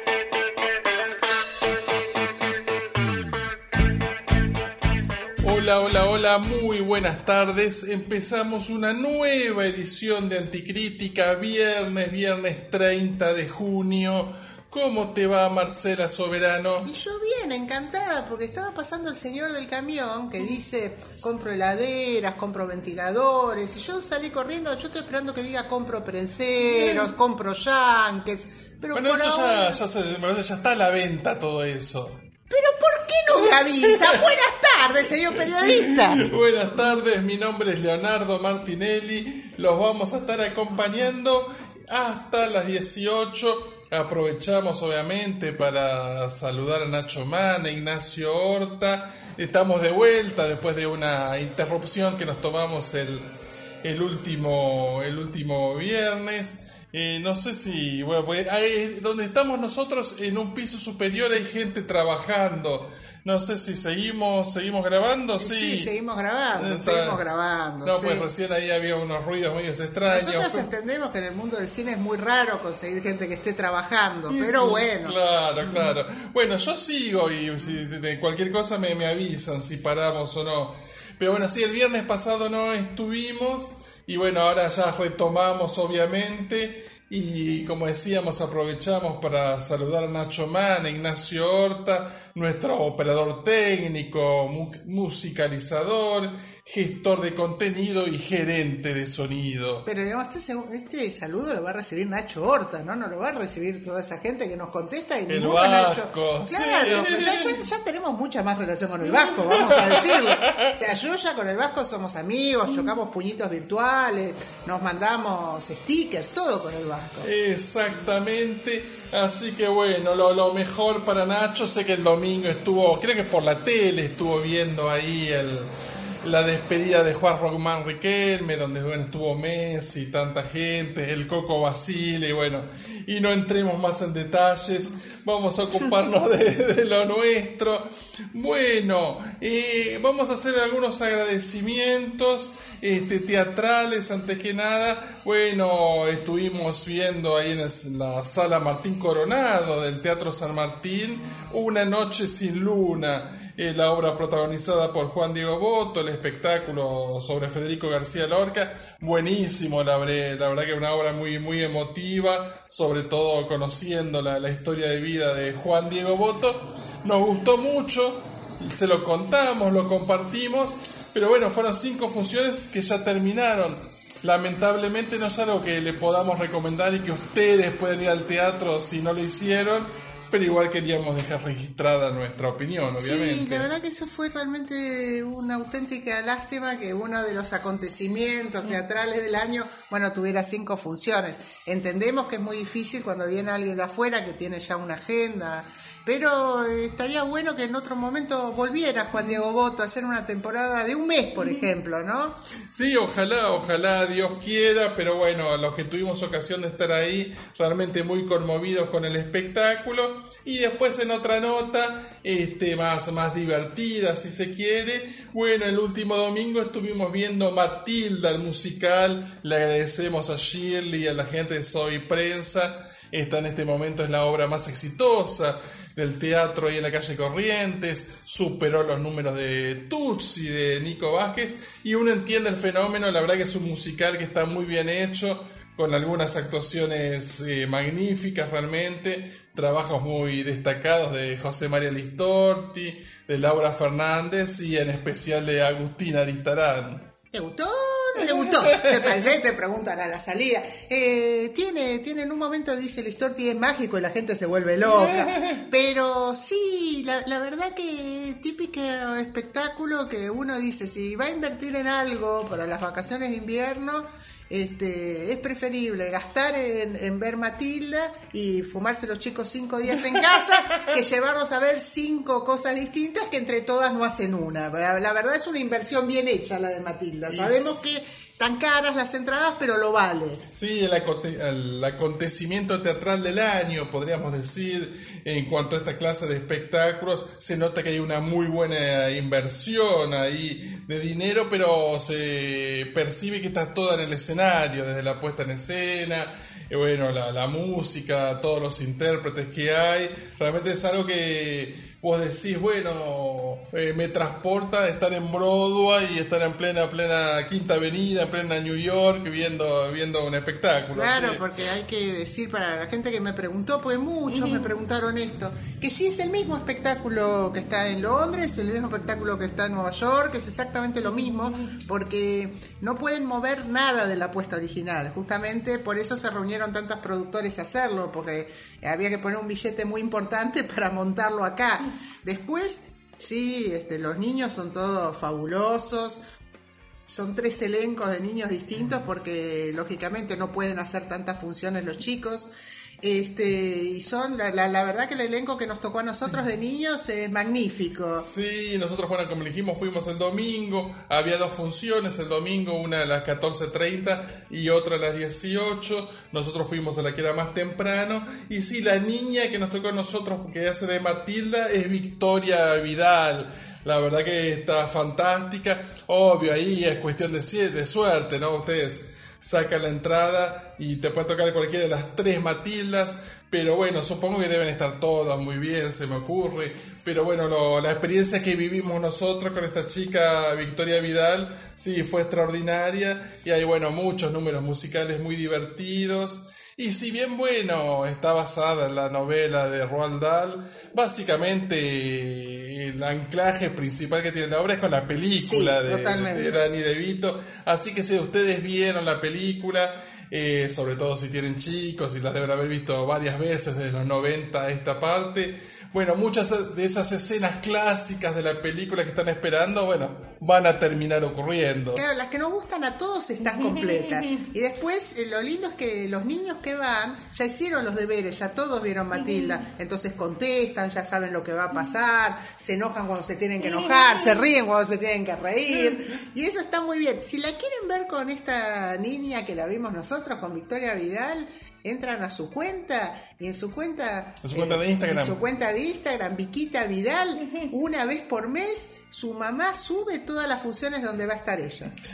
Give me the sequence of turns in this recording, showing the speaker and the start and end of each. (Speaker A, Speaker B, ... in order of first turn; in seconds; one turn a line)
Speaker A: 5.4-16.9
Speaker B: 16.9-29.8
Speaker A: 26.6-27.1
Speaker A: 28.9-32.2
Speaker B: 32.5-36.3
Speaker A: 33.4-34.2
Speaker A: 35.4-53.3
Speaker A: 53.8-65.9
Speaker B: 65.4-68.3
Speaker A: 66.5-67.2
Speaker A: 67.8-70.7
Speaker B: 70.1-75.9
Speaker A: 74.3-99.9
Speaker B: 99.9-117.3
Speaker A: 105.3-107.6
Speaker A: 109.0-110.7
Speaker A: 117.2-125.7
Speaker A: 126.2-183.7
Speaker B: 182.9-202.4
Speaker A: 202.7-247.1
Speaker B: 247.3-280.4
Speaker A: 248.2-249.3
Speaker A: 254.8-255.6
Speaker A: 270.1-270.7
Speaker A: 277.3-277.9
Speaker A: 280.5-311.4
Speaker B: 310.9-336.2
Speaker A: 314.3-314.7
Speaker B: 337.1-342.5
Speaker B: 343.0-348.3
Speaker A: 348.2-412.0
Speaker B: 395.4-396.6
Speaker B: 411.9-441.9
Speaker A: 434.4-435.4